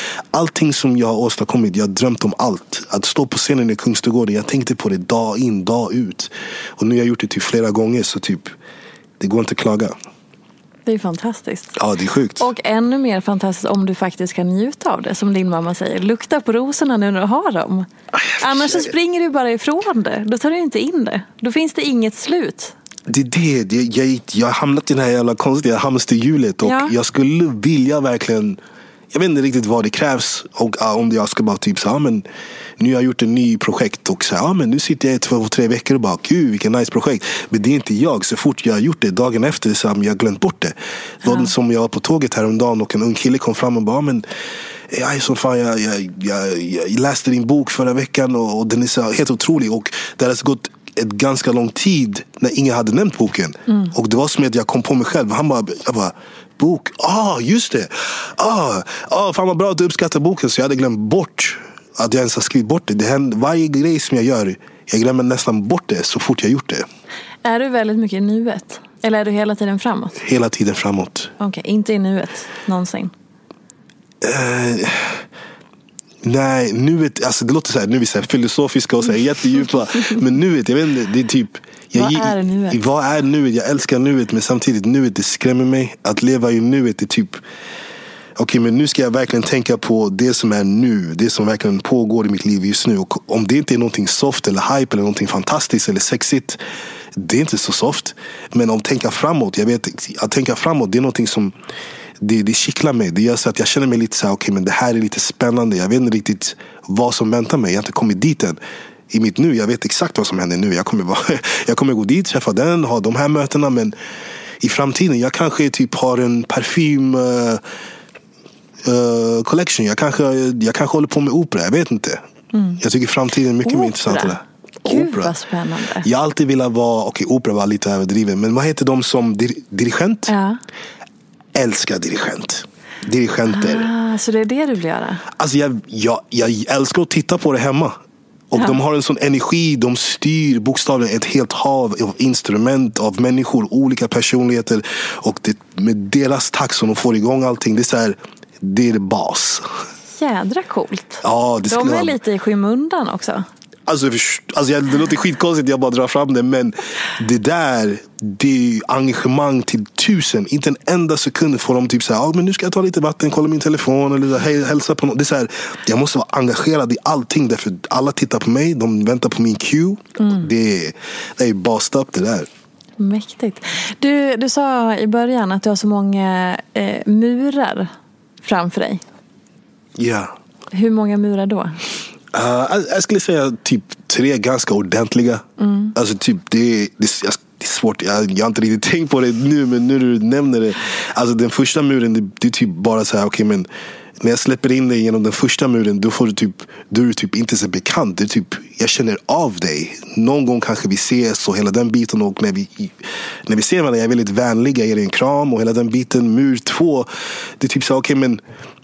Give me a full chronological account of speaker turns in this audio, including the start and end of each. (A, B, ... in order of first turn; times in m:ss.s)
0:00.3-0:08.6 A
0:09.2-0:10.0 A
0:10.9-0:11.7 B
0:11.8-0:12.5 A
0:12.4-0:22.8 B
0:18.2-0:18.9 A
0:23.1-0:28.6 A
0:26.6-0:26.9 B
0:29.1-0:32.2 A
0:32.8-0:44.2 A
0:41.2-0:41.5 B
0:44.9-1:06.9 A
0:53.7-0:53.9 B
1:07.4-1:10.2 B
1:10.2-1:11.3 A
1:11.4-1:13.1 B
1:14.2-1:15.2 A
1:16.2-1:27.4 A
1:22.0-1:22.8 B
1:28.4-1:36.6 A
1:37.2-1:41.5 A
1:42.2-1:48.6 A
1:49.1-1:54.0 A
1:54.6-1:57.6 A
1:58.8-2:02.2 A
2:02.5-2:02.8 B
2:02.8-2:05.3 A
2:03.6-2:06.1 B
2:06.0-2:10.3 A
2:10.3-2:10.6 B
2:11.5-2:13.9 A
2:13.5-2:15.2 B
2:15.4-2:18.0 A
2:18.5-2:29.6 A
2:30.2-2:33.5 B
2:31.2-2:32.2 A
2:33.9-2:52.5 A
2:53.0-2:57.9 B
2:58.4-2:59.0 B
3:00.0-3:00.3 A
3:00.7-3:01.8 B
3:02.3-3:13.7 A
3:05.6-3:05.9 B
3:14.2-3:23.0 A
3:23.5-3:27.1 A
3:27.6-3:28.4 A